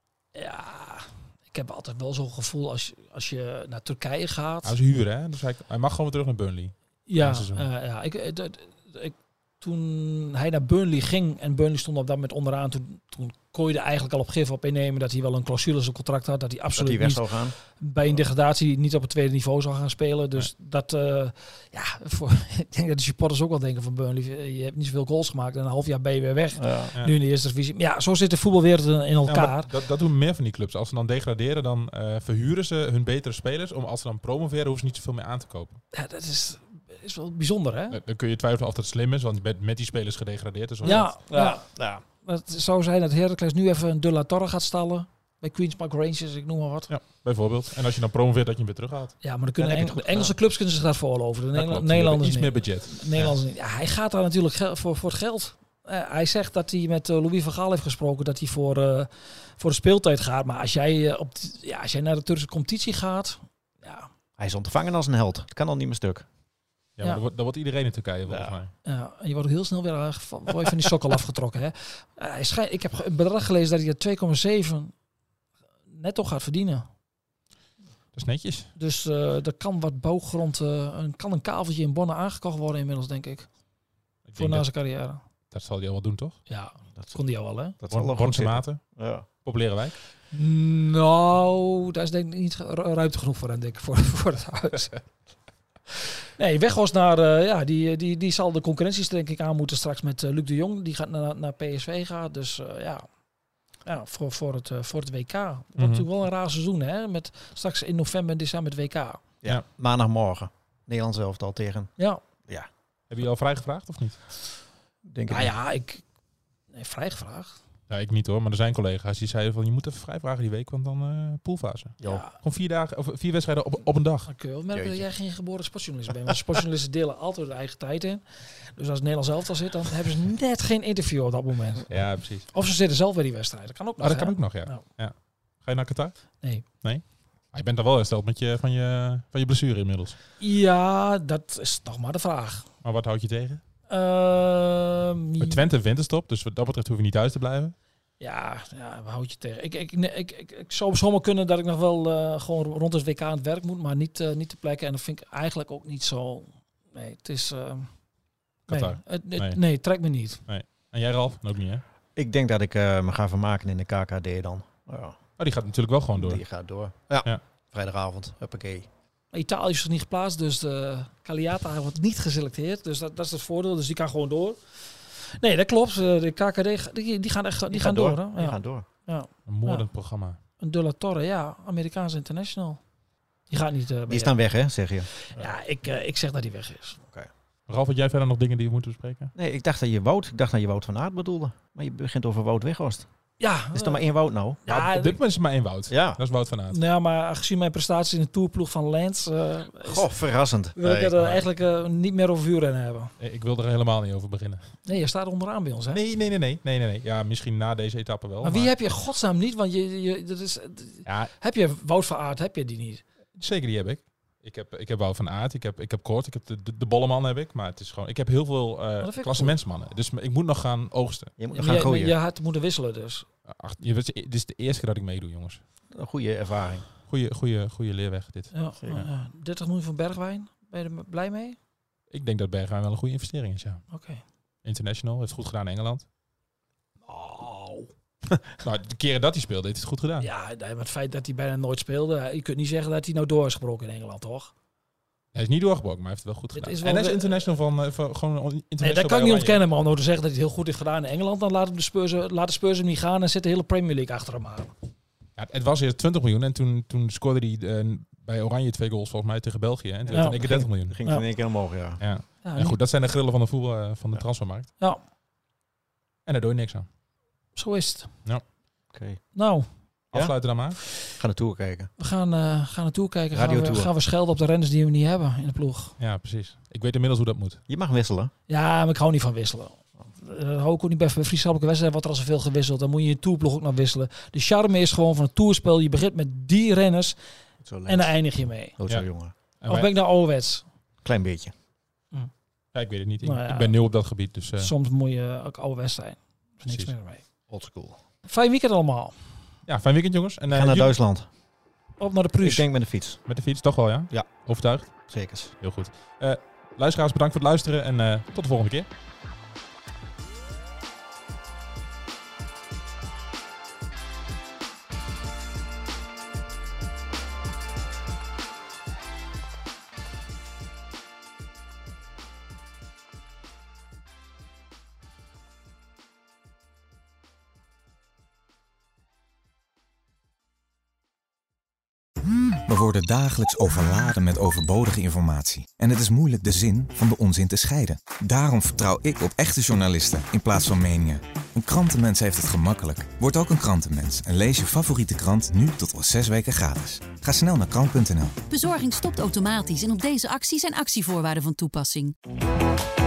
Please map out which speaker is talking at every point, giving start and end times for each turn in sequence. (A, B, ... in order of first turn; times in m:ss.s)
0:00.3-0:04.8 A
0:04.6-0:07.7 B
0:07.1-0:29.7 A
0:16.7-0:17.6 C
0:26.6-0:26.9 C
0:29.3-0:35.8 B
0:35.9-0:38.0 A
0:37.9-0:41.1 B
0:40.8-0:42.0 C
0:40.8-0:46.9 A
0:46.9-0:49.2 B
0:49.2-1:04.1 A
0:49.6-0:50.3 C
0:51.5-0:53.3 B
1:04.4-1:06.2 C
1:07.0-1:08.7 B
1:08.3-1:08.6 C
1:08.8-1:14.9 A
1:15.9-1:16.9 A
1:18.1-1:18.7 B
1:18.8-1:23.5 A
1:24.2-1:24.8 B
1:24.4-1:25.2 A
1:25.5-1:26.4 B
1:26.5-1:27.7 A
1:27.0-1:27.2 C
1:27.7-1:29.2 C
1:27.9-1:30.0 B
1:30.3-1:35.0 A
1:36.4-1:43.1 A
1:43.8-1:49.2 A
1:45.8-1:46.0 B
1:49.4-1:52.7 C
1:53.1-1:54.2 B
1:55.0-1:55.5 C
1:55.3-1:56.0 A
1:56.7-1:57.6 A
1:57.9-2:04.3 B
2:02.0-2:02.3 A
2:04.3-2:14.8 A
2:04.7-2:05.1 C
2:11.9-2:12.5 B
2:14.0-2:20.2 B
2:20.4-2:22.6 A
2:22.8-2:23.6 B
2:23.9-2:25.7 A
2:25.4-2:27.7 B
2:28.2-2:38.0 A
2:38.7-2:39.8 B
2:38.7-2:40.4 A
2:40.4-2:41.8 B
2:42.2-2:45.2 C
2:45.4-2:46.4 B
2:46.1-2:48.9 C
2:49.3-2:59.9 A
2:57.7-2:58.8 C
2:59.5-3:00.4 B
3:00.6-3:02.8 A
3:03.5-3:07.0 A
3:04.1-3:05.5 C
3:07.7-3:09.3 B
3:09.3-3:13.1 C
3:13.4-3:14.1 A
3:13.7-3:14.6 C
3:14.6-3:15.2 A
3:14.7-3:16.8 B
3:15.9-3:16.2 C
3:16.7-3:20.1 A
3:19.8-3:21.4 C
3:20.7-3:23.1 A
3:23.2-3:24.8 B
3:24.8-3:26.0 A
3:25.9-3:28.8 B
3:28.4-3:33.0 A
3:31.0-3:31.3 B
3:33.4-3:41.3 B
3:39.0-3:39.6 A
3:41.4-3:42.1 C
3:41.5-3:43.2 A
3:43.5-3:45.6 B
3:45.9-3:46.8 C
3:47.1-3:48.5 B
3:48.5-3:51.6 A
3:48.8-3:49.0 C
3:52.1-3:53.9 B
3:53.9-3:54.2 A
3:54.6-3:56.1 B
3:57.1-3:57.9 A
3:58.6-4:00.3 B
4:00.2-4:04.5 A
4:05.3-4:09.6 B
4:06.5-4:07.4 A
4:08.8-4:14.7 A
4:15.4-4:21.0 B
4:20.1-4:21.3 A
4:20.3-4:22.0 C
4:22.0-4:24.7 B
4:22.4-4:22.8 A
4:26.2-4:26.9 B
4:27.5-4:28.2 A
4:28.9-4:29.2 C
4:29.3-4:29.8 A
4:30.1-4:30.4 C
4:30.1-4:30.8 B
4:31.0-4:31.9 C
4:32.0-4:36.0 A
4:33.3-4:33.9 C
4:36.0-4:37.6 B
4:37.7-4:38.3 C
4:38.5-4:47.2 A
4:47.6-4:48.1 C
4:47.8-4:48.8 A
4:48.8-4:49.3 C
4:49.6-4:49.9 B
4:49.7-4:50.6 A
4:51.0-4:51.5 C
4:52.7-4:54.7 B
4:53.2-4:53.8 A
4:54.6-4:57.2 A
4:56.6-4:56.9 B
4:57.5-4:58.0 C
4:58.2-4:59.2 A
4:59.7-5:00.9 B
5:00.5-5:01.3 C
5:02.0-5:02.7 A
5:02.4-5:03.3 C
5:03.3-5:08.9 B
5:04.1-5:04.4 C
5:05.0-5:05.5 C
5:32.7-5:48.4 D
5:48.5-5:52.1 E